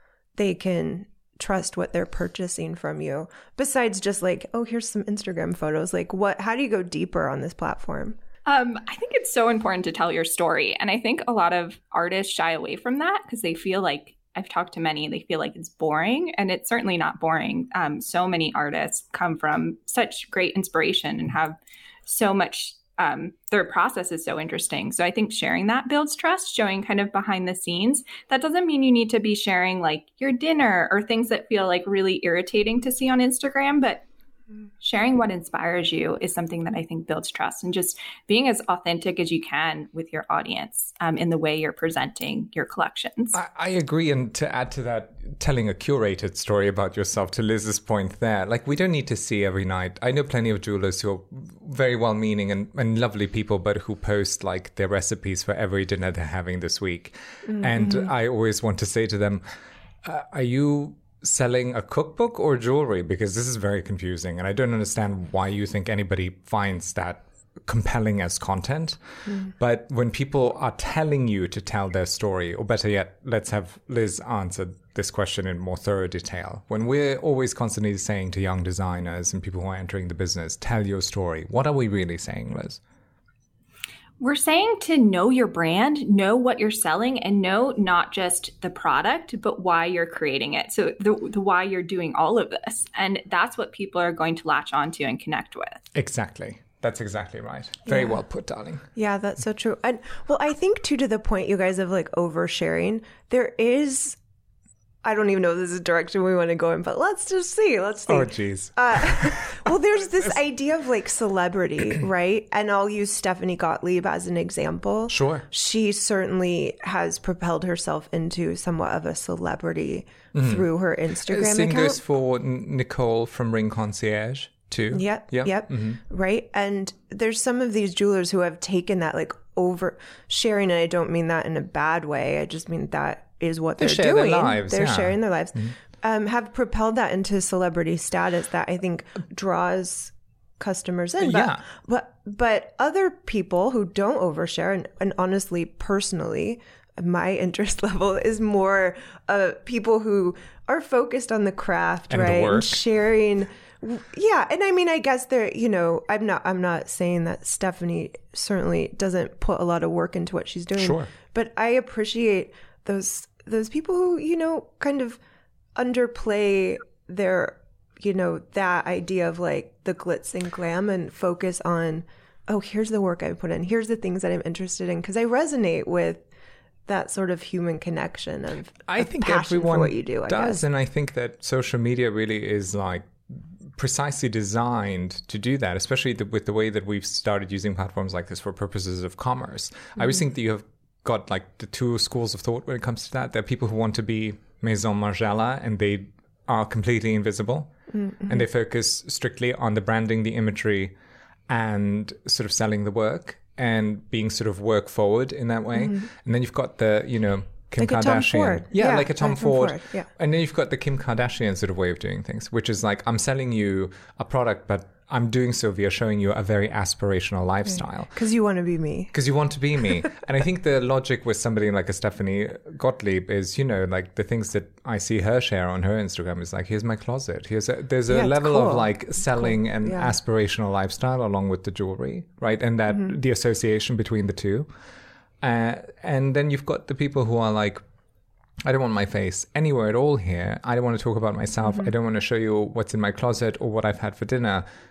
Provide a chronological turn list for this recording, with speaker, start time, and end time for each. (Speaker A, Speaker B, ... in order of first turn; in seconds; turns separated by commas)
Speaker A: 0.3-8.2, Speaker B: 8.4-21.6, Speaker B: 22.1-34.0, Speaker B: 34.8-43.4, Speaker C: 43.3-59.4, Speaker A: 57.5-58.1, Speaker C: 60.0-82.8, Speaker B: 84.2-95.8, Speaker C: 95.9-98.8, Speaker A: 97.9-98.2, Speaker A: 98.9-104.2, Speaker A: 105.0-122.0, Speaker C: 108.1-109.7, Speaker C: 115.1-115.5, Speaker C: 120.3-120.7, Speaker C: 121.2-126.0, Speaker A: 124.9-165.2, Speaker C: 133.8-135.7, Speaker C: 141.2-141.6, Speaker C: 152.1-152.8, Speaker C: 160.8-161.1, Speaker A: 165.8-176.2, Speaker A: 176.9-180.6, Speaker C: 178.8-197.7, Speaker A: 197.9-198.4, Speaker C: 198.3-200.9, Speaker C: 201.5-218.1, Speaker A: 205.7-206.1, Speaker A: 207.8-210.1, Speaker A: 217.7-219.1, Speaker C: 219.1-234.7, Speaker A: 228.1-230.2, Speaker C: 235.4-237.8, Speaker C: 238.6-244.7